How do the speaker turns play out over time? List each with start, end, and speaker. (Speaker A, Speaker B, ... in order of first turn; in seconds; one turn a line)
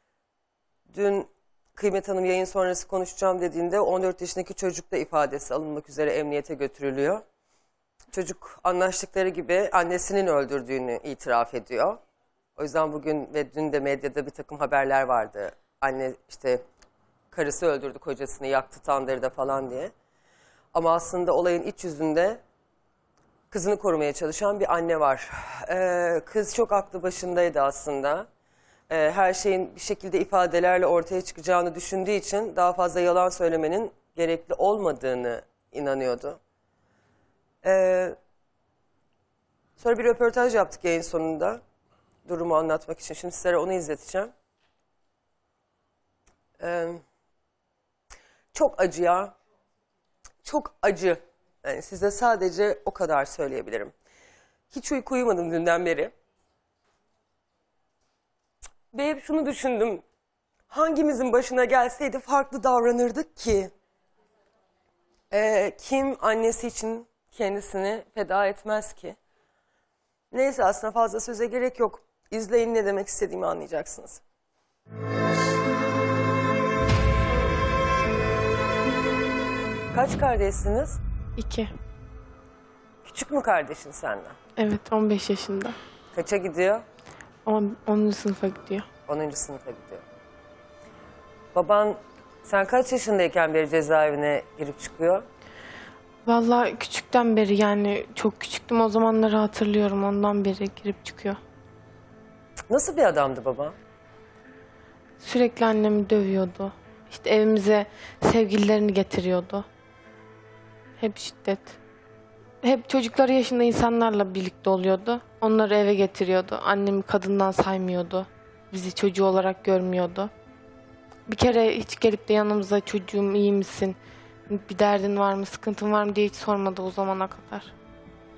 Speaker A: 0.9-7.2
Speaker A: 8.1-12.0
Speaker A: 12.6-16.6
Speaker A: 17.3-19.9
Speaker A: 20.7-22.4
Speaker A: 23.5-28.3
Speaker A: 28.9-36.4
Speaker A: 37.6-38.1
Speaker A: 39.8-41.6
Speaker A: 42.2-44.3
Speaker A: 46.6-47.0
Speaker A: 48.5-49.3
Speaker A: 50.4-53.9
Speaker A: 54.7-56.1
Speaker A: 58.9-60.0
Speaker A: 60.7-63.7
Speaker A: 65.3-69.2
Speaker A: 70.3-74.2
Speaker A: 79.9-81.0
Speaker B: 81.4-81.7
Speaker A: 83.0-84.4
Speaker B: 84.6-85.8
Speaker A: 86.1-86.8
Speaker B: 87.5-88.9
Speaker A: 89.1-90.0
Speaker A: 91.5-95.2
Speaker B: 96.3-101.4
Speaker A: 102.7-103.8
Speaker B: 105.2-109.7
Speaker B: 111.0-111.8
Speaker B: 112.6-120.3
Speaker B: 121.3-124.0
Speaker B: 124.5-127.7